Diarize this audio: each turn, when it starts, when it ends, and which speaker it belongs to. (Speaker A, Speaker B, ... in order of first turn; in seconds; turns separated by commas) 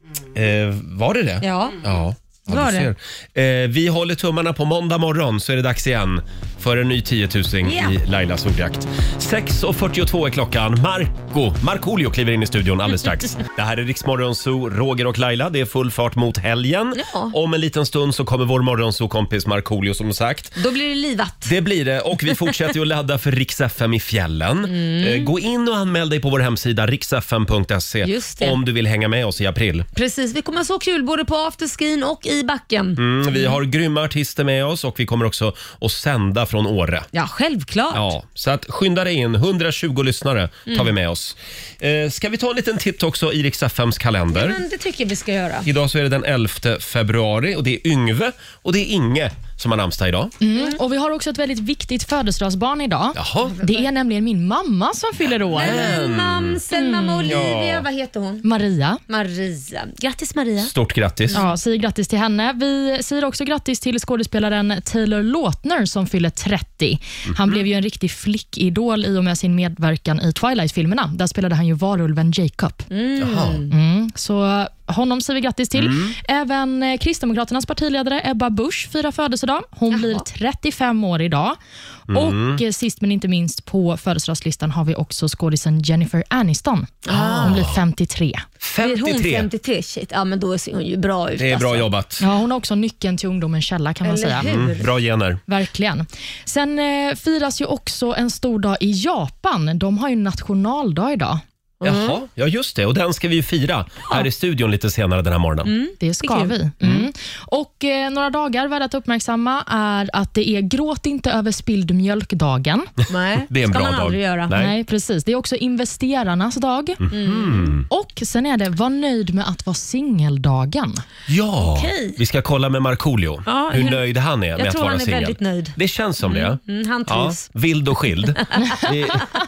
Speaker A: 0.3-20.6, Speaker B: 1.4-1.8, Speaker B: 2.5-2.9, Speaker B: 7.6-8.0, Speaker B: 17.0-17.3, Speaker B: 20.6-21.5, Speaker A: 21.4-29.9, Speaker B: 24.7-25.3, Speaker B: 28.0-28.6, Speaker B: 29.9-33.6, Speaker A: 33.0-37.1, Speaker B: 37.1-38.1, Speaker A: 37.9-44.6, Speaker B: 44.3-45.7, Speaker A: 45.6-50.3, Speaker C: 50.4-56.0, Speaker A: 53.1-53.5, Speaker B: 53.5-53.9, Speaker B: 55.5-58.5, Speaker A: 55.5-56.6, Speaker C: 56.7-57.5, Speaker A: 57.3-57.9, Speaker C: 58.4-59.0, Speaker B: 59.1-60.7, Speaker A: 60.6-61.4, Speaker C: 61.3-72.9, Speaker A: 67.3-67.5, Speaker B: 72.9-73.7, Speaker A: 73.2-73.6, Speaker C: 73.7-88.4, Speaker A: 75.8-76.1, Speaker B: 79.9-80.2, Speaker A: 82.1-82.6, Speaker B: 87.1-87.6, Speaker A: 87.1-87.8, Speaker A: 88.6-89.5, Speaker B: 88.8-91.9, Speaker A: 91.4-92.2, Speaker C: 92.2-94.6, Speaker B: 94.0-94.9, Speaker A: 94.5-95.4, Speaker C: 95.5-101.4, Speaker B: 101.8-102.2, Speaker A: 101.8-105.7, Speaker B: 105.6-107.0, Speaker C: 106.0-112.9, Speaker B: 113.1-114.5, Speaker A: 113.5-114.8, Speaker C: 114.5-117.0, Speaker A: 117.0-117.9, Speaker B: 117.1-117.7, Speaker C: 117.9-121.0, Speaker A: 121.3-129.3, Speaker B: 121.6-122.2, Speaker B: 123.5-124.0, Speaker B: 124.6-127.5, Speaker B: 128.4-128.7